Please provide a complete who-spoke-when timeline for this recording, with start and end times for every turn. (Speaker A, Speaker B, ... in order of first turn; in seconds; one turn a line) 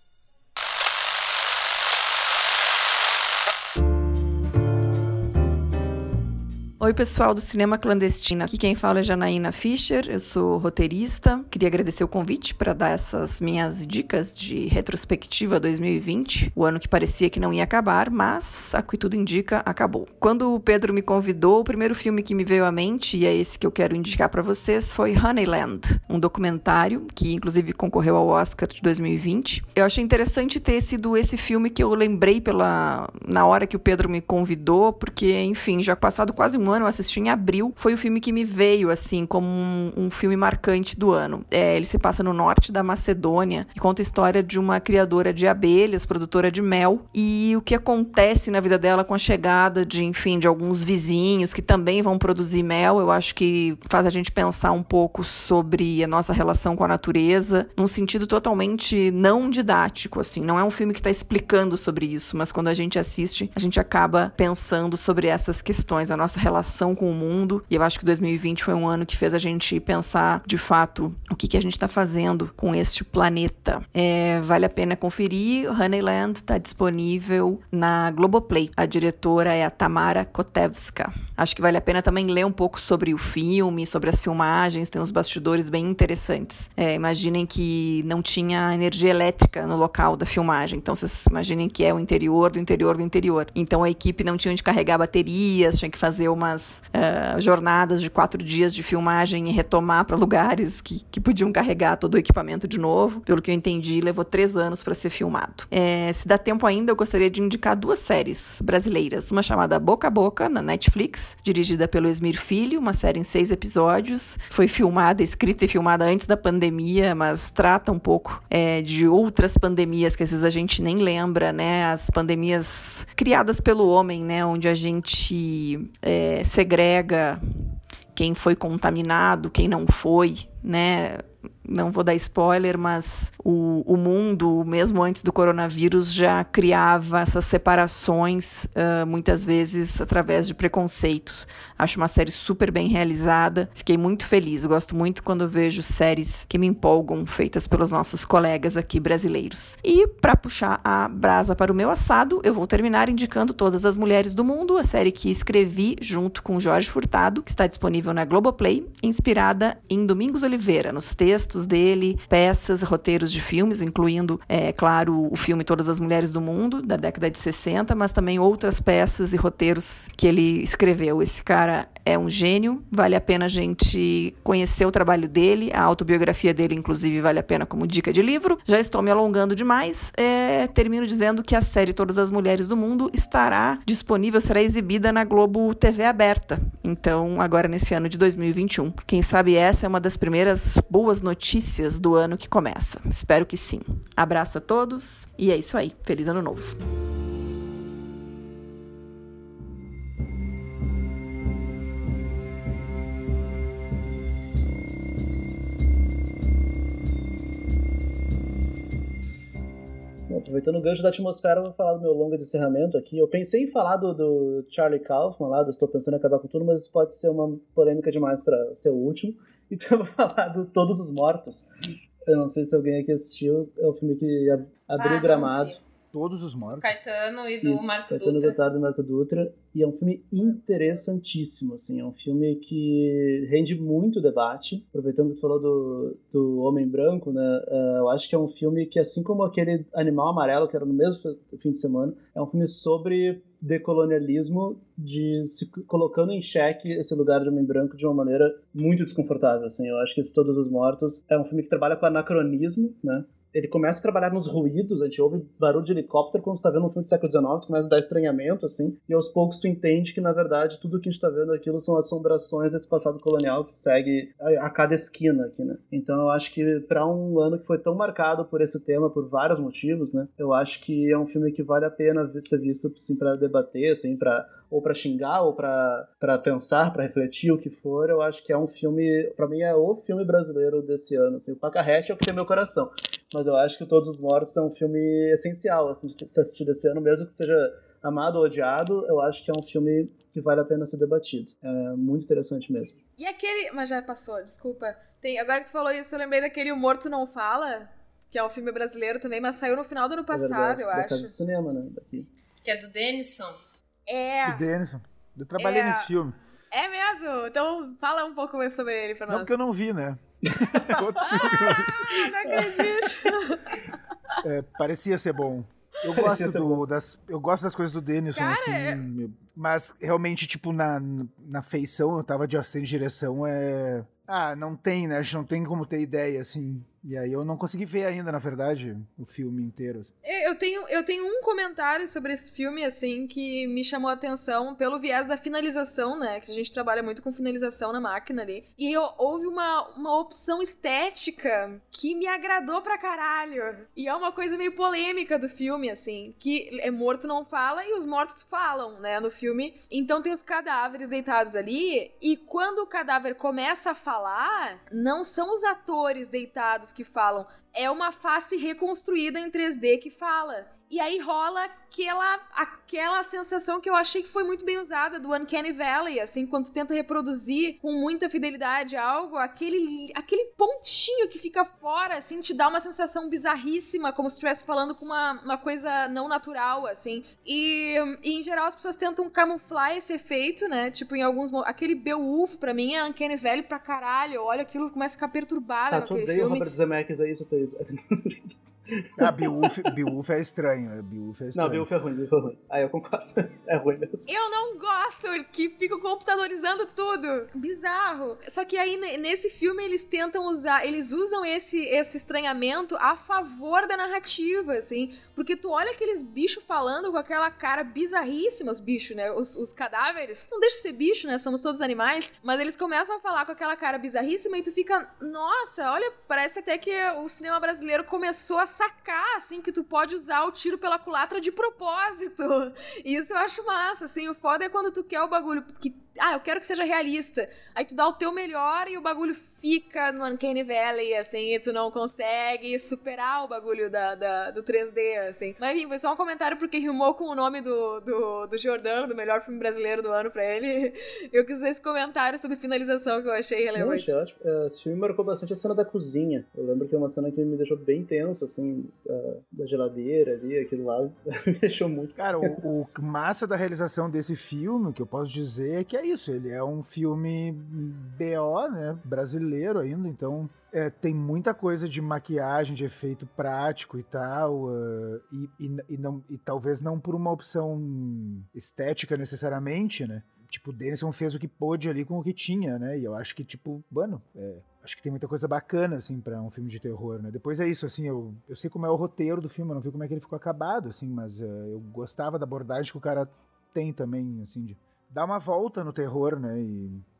Speaker A: 6.8-196.8
Speaker B: 210.3-221.7
Speaker B: 222.2-225.8
Speaker C: 225.0-225.8
Speaker D: 226.1-226.9
Speaker C: 226.8-228.6
Speaker B: 227.6-292.9
Speaker E: 293.2-301.3
Speaker B: 300.3-302.3
Speaker C: 302.6-303.6
Speaker E: 304.1-304.6
Speaker D: 304.4-306.3
Speaker E: 305.6-306.1
Speaker E: 306.7-309.6
Speaker D: 309.3-312.0
Speaker B: 310.6-311.8
Speaker E: 311.2-313.7
Speaker B: 312.4-313.2
Speaker D: 314.4-330.1
Speaker B: 316.1-316.8
Speaker E: 318.3-319.0
Speaker E: 330.2-386.6
Speaker B: 385.9-389.8
Speaker D: 389.2-391.9
Speaker B: 391.5-394.2
Speaker E: 394.3-444.1
Speaker B: 443.8-452.9
Speaker D: 452.2-487.0